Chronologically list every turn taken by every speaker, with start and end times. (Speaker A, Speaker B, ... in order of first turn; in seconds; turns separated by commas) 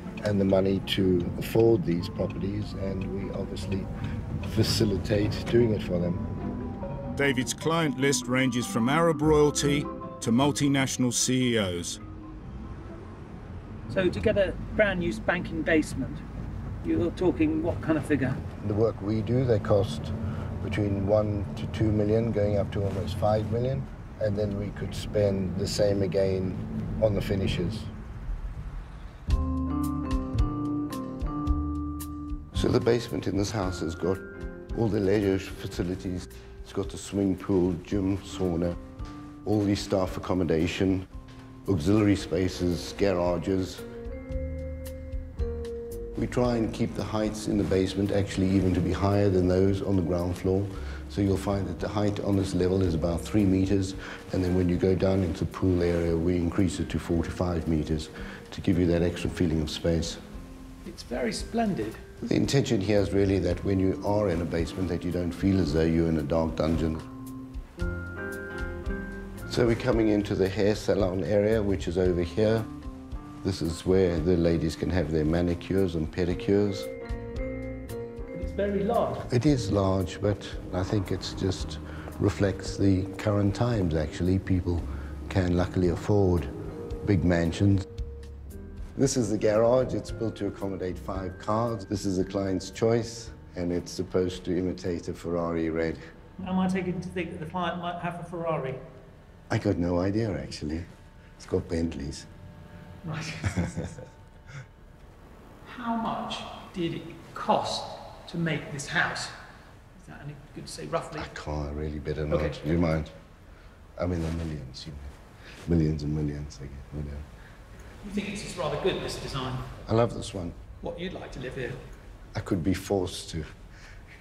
Speaker A: 0.2-3.9, Speaker A: 4.4-6.2, Speaker B: 7.2-12.0, Speaker C: 13.9-16.2, Speaker C: 16.8-18.4, Speaker A: 18.6-27.9, Speaker A: 32.5-34.2, Speaker A: 34.7-38.8, Speaker A: 39.5-41.1, Speaker A: 41.7-43.8, Speaker A: 46.2-60.2, Speaker C: 60.9-62.0, Speaker A: 62.2-67.1, Speaker A: 69.5-72.7, Speaker A: 73.4-76.9, Speaker C: 78.3-79.2, Speaker A: 79.3-86.5, Speaker A: 87.0-87.9, Speaker A: 89.0-96.0, Speaker C: 96.4-98.8, Speaker A: 99.5-100.9, Speaker A: 101.4-102.3, Speaker C: 103.0-103.5, Speaker C: 105.6-109.3, Speaker C: 110.0-111.3, Speaker A: 111.1-113.1, Speaker C: 112.3-112.6, Speaker A: 114.0-115.1, Speaker A: 115.7-117.2, Speaker C: 118.0-119.7, Speaker A: 119.9-120.6, Speaker C: 120.8-121.8, Speaker A: 122.3-123.6